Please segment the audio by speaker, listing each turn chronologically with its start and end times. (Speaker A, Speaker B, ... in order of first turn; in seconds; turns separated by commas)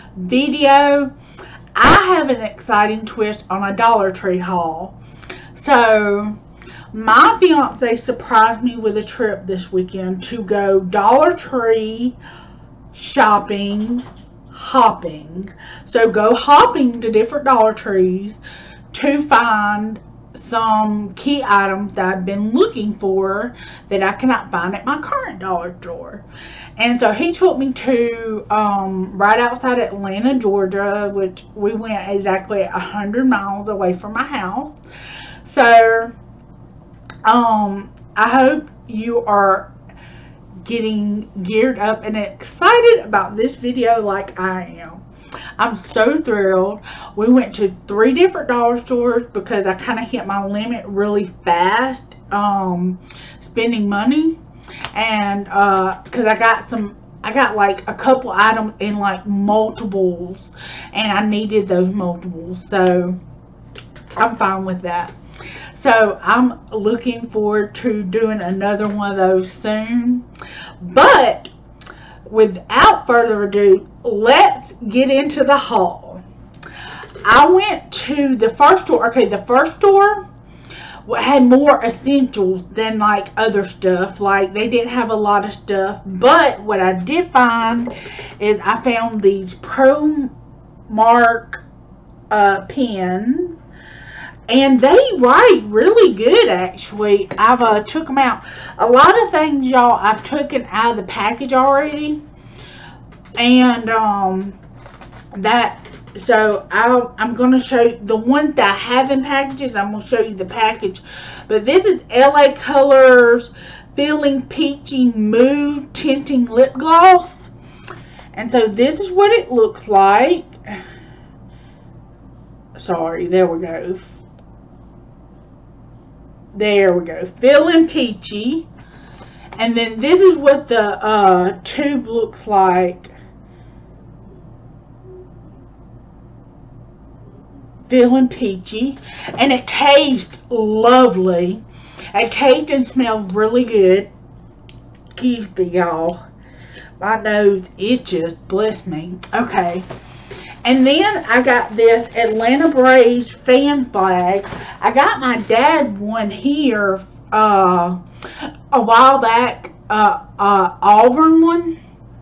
Speaker A: 0.1-1.1, Speaker A: 1.7-5.0, Speaker A: 5.5-6.4, Speaker A: 6.9-12.2, Speaker A: 12.9-18.4, Speaker A: 18.9-26.2, Speaker A: 26.8-34.7, Speaker A: 35.4-36.1, Speaker A: 37.2-39.7, Speaker A: 40.6-45.0, Speaker A: 45.6-54.4, Speaker A: 54.9-63.2, Speaker A: 64.2-65.1, Speaker A: 65.7-70.2, Speaker A: 70.8-71.5, Speaker A: 72.3-76.2, Speaker A: 77.2-80.3, Speaker A: 81.0-90.3, Speaker A: 90.9-91.6, Speaker A: 92.3-93.6, Speaker A: 94.5-102.2, Speaker A: 103.3-104.5, Speaker A: 105.3-117.5, Speaker A: 118.3-120.5, Speaker A: 122.8-124.2, Speaker A: 126.5-128.7, Speaker A: 129.6-133.1, Speaker A: 137.9-144.1, Speaker A: 145.1-146.2, Speaker A: 147.0-149.9, Speaker A: 150.6-158.0, Speaker A: 158.7-161.7